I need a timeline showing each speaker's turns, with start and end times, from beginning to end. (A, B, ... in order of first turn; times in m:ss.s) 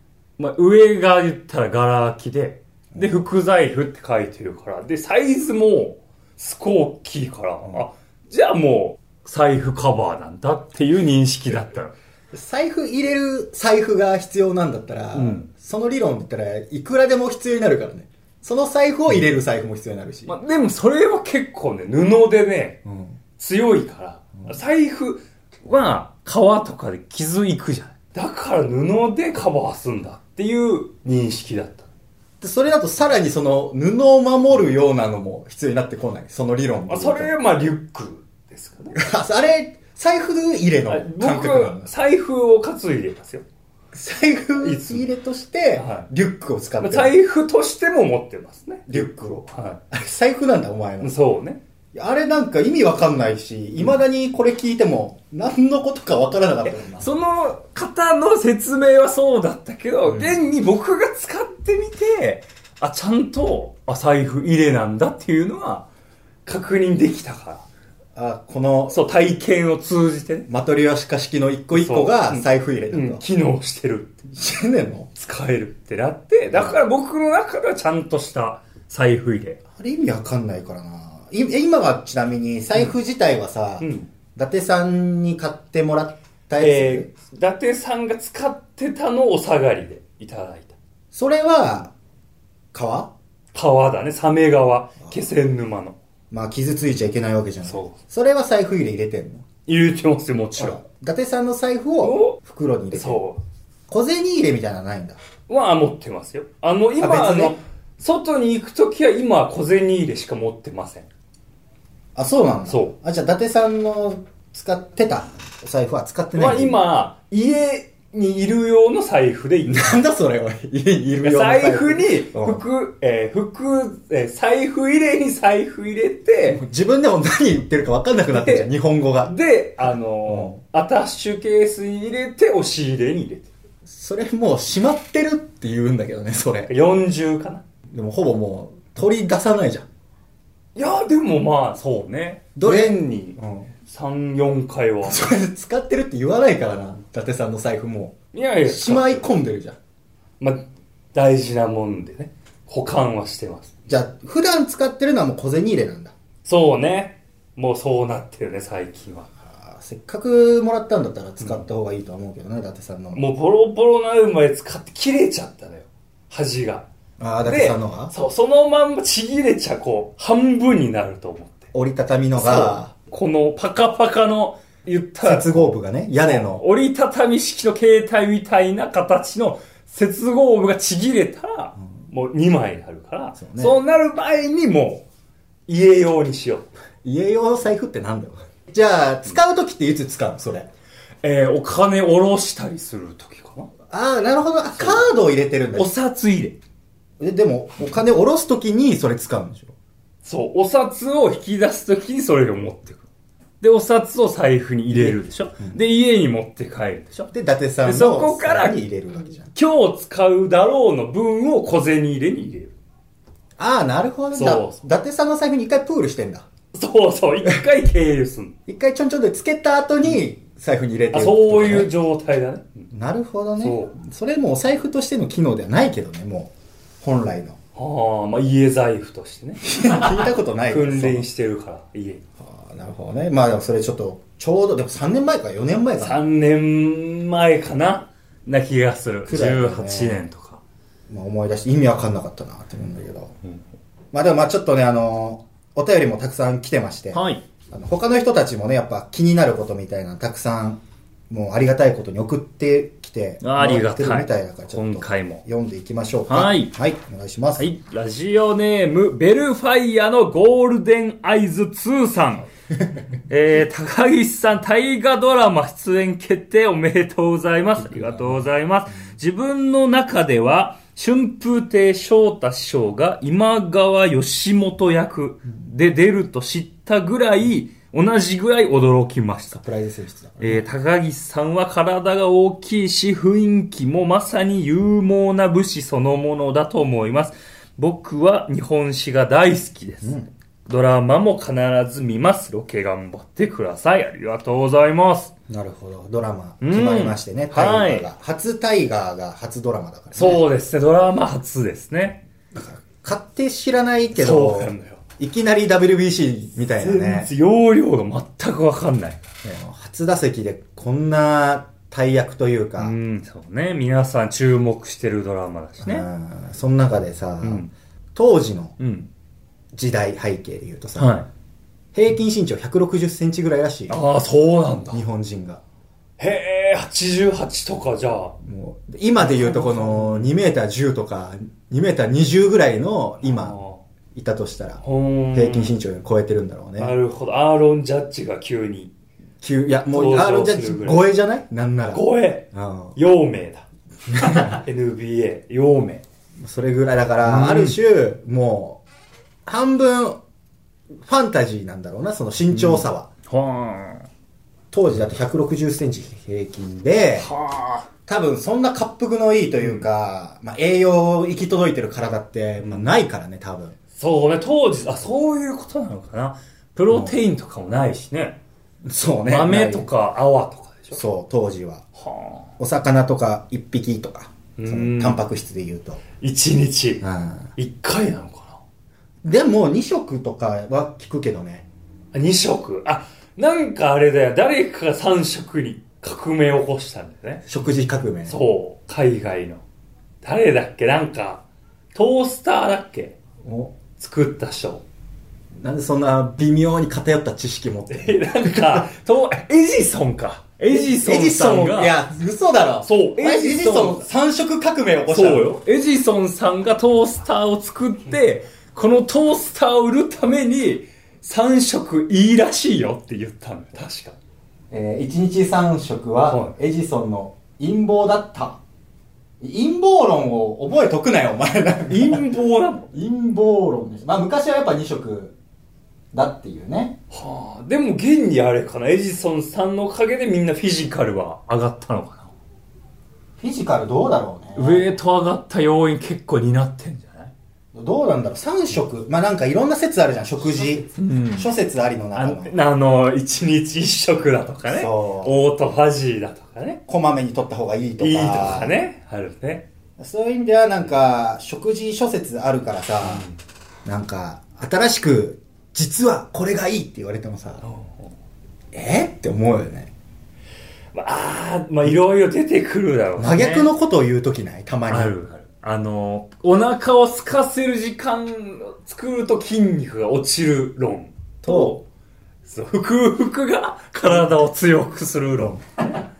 0:00.4-0:11.9 A
0:02.9-0:03.2 B
0:12.3-0:20.4 B
0:15.1-0:15.5 A
0:20.3-0:22.8 A
0:22.8-0:23.2 B
0:23.4-0:31.9 A
0:32.4-0:37.3 B
0:36.9-0:39.0 A
0:38.9-0:41.9 B
0:40.9-0:43.4 A
0:43.9-0:47.2 B
0:44.6-0:45.1 A
0:45.8-0:46.1 A
0:46.8-0:49.8 A
0:48.9-0:51.1 B
0:51.0-0:51.6 A
0:51.9-0:57.1 B
0:56.6-1:05.9 A
1:00.1-1:00.4 B
1:06.5-1:07.7 A
1:08.2-1:09.0 B
1:08.9-1:10.5 A
1:10.5-1:13.2 B
1:11.7-1:14.3 A
1:14.3-1:15.1 B
1:15.2-1:19.6 A
1:16.5-1:16.8 B
1:19.8-1:27.1 B
1:23.8-1:24.1 A
1:26.6-1:30.8 A
1:31.1-1:31.9 B
1:32.7-1:33.1 B
1:33.5-1:36.0 A
1:36.3-1:39.4 B
1:37.6-1:38.0 A
1:39.7-1:40.8 A
1:40.6-1:43.2 B
1:42.0-1:42.4 A
1:42.9-1:43.4 A
1:43.9-1:45.2 B
1:45.5-1:51.1 A
1:47.0-1:47.6 B
1:52.2-1:56.8 B
1:52.7-1:52.9 A
1:56.4-2:00.0 A
1:59.7-2:02.6 B
2:01.2-2:06.6 A
2:06.5-2:09.4 B
2:08.3-2:08.7 A
2:09.2-2:13.5 A
2:09.9-2:10.6 B
2:13.9-2:16.7 B
2:16.7-2:17.6 A
2:17.9-2:19.9 B
2:20.8-2:25.2 A
2:22.6-2:23.7 B
2:25.0-2:29.8 B
2:28.3-2:29.3 A
2:30.4-2:33.7 A
2:33.9-2:36.1 B
2:36.4-2:39.3 A
2:39.4-2:43.3 B
2:43.2-2:46.9 A
2:47.2-2:48.1 B
2:47.4-2:51.7 A
2:51.7-2:52.9 B
2:52.4-3:05.0 A
2:55.2-2:56.6 B
3:03.4-3:03.8 B
3:05.7-3:06.7 A
3:07.0-3:10.7 B
3:11.2-3:13.7 A
3:13.9-3:15.9 B
3:14.8-3:15.1 A
3:15.8-3:16.6 A
3:17.2-3:19.7 B
3:20.2-3:23.0 A
3:23.6-3:27.3 A
3:24.9-3:25.8 B
3:27.3-3:29.5 B
3:27.8-3:28.8 A
3:29.5-3:32.7 A
3:33.6-3:36.5 B
3:34.3-3:34.8 A
3:36.7-3:38.6 A
3:38.7-3:41.9 B
3:41.1-3:42.9 A
3:42.9-3:47.6 B
3:43.6-3:44.0 A
3:47.8-3:52.2 A
3:49.6-3:51.3 B
3:52.4-3:56.2 B
3:56.0-4:00.6 A
3:59.3-4:00.2 B
4:01.1-4:03.4 B
4:04.1-4:17.7 B
4:07.1-4:07.4 A
4:13.4-4:15.4 A
4:16.3-4:16.7 A
4:17.6-4:22.5 A
4:23.3-4:39.6 A
4:27.9-4:29.1 B
4:39.5-4:40.6 B
4:40.4-4:55.3 A
4:50.0-4:50.3 B
4:55.5-5:00.4 B
4:56.6-4:58.1 A
5:00.2-5:02.2 A
5:02.5-5:07.3 B
5:04.2-5:05.0 A
5:06.8-5:09.2 A
5:09.4-5:13.0 B
5:12.8-5:16.1 A
5:15.8-5:18.8 B
5:17.4-5:17.7 A
5:18.8-5:19.1 A
5:19.7-5:21.1 B
5:21.0-5:21.3 A
5:21.9-5:24.0 B
5:23.9-5:25.0 A
5:24.9-5:25.6 B
5:26.2-5:28.4 A
5:28.4-5:33.6 B
5:29.2-5:30.3 A
5:33.2-5:33.8 A
5:34.1-5:37.0 B
5:34.8-5:35.8 A
5:36.8-5:38.9 A
5:39.4-5:43.0 B
5:39.9-5:41.1 A
5:41.9-5:46.0 A
5:44.1-5:44.6 B
5:46.4-5:48.8 B
5:47.2-5:47.8 A
5:49.5-5:50.2 B
5:51.0-5:53.1 B
5:52.5-5:54.1 A
5:54.7-5:57.3 B
5:57.2-5:57.9 A
5:58.1-6:03.8 B
6:02.6-6:02.9 A
6:04.0-6:08.4 A
6:06.9-6:07.2 B
6:08.8-6:09.9 B
6:09.3-6:11.0 A
6:10.9-6:11.8 B
6:12.0-6:12.5 A
6:12.6-6:16.0 B
6:14.6-6:15.2 A
6:16.2-6:18.6 A
6:17.0-6:17.5 B
6:19.2-6:21.7 B
6:22.1-6:27.4 A
6:27.5-6:28.4 B
6:28.3-6:29.6 A
6:30.2-6:33.2 A
6:33.4-6:33.8 B
6:34.0-6:34.8 A
6:35.6-6:38.9 B
6:37.9-6:42.0 A
6:40.7-6:45.5 B
6:42.8-6:44.1 A
6:45.1-6:54.2 A
6:54.7-6:58.6 B
6:56.3-6:56.6 A
6:59.4-7:02.2 B
7:01.9-7:02.9 A
7:02.9-7:05.4 B
7:06.1-7:07.0 B
7:07.1-7:12.3 A
7:13.4-7:14.9 B
7:14.6-7:17.3 A
7:17.7-7:22.5 B
7:20.9-7:21.5 A
7:22.2-7:26.8 A
7:24.7-7:25.4 B
7:26.9-7:28.8 B
7:28.0-7:29.7 A
7:30.0-7:33.3 B
7:33.0-7:33.4 A
7:33.8-7:37.6 B
7:37.6-7:38.1 A
7:38.7-7:39.9 B
7:40.9-7:43.7 A
7:43.2-7:45.1 B
7:44.9-7:51.8 A
7:51.4-7:51.8 B
7:52.5-7:55.6 A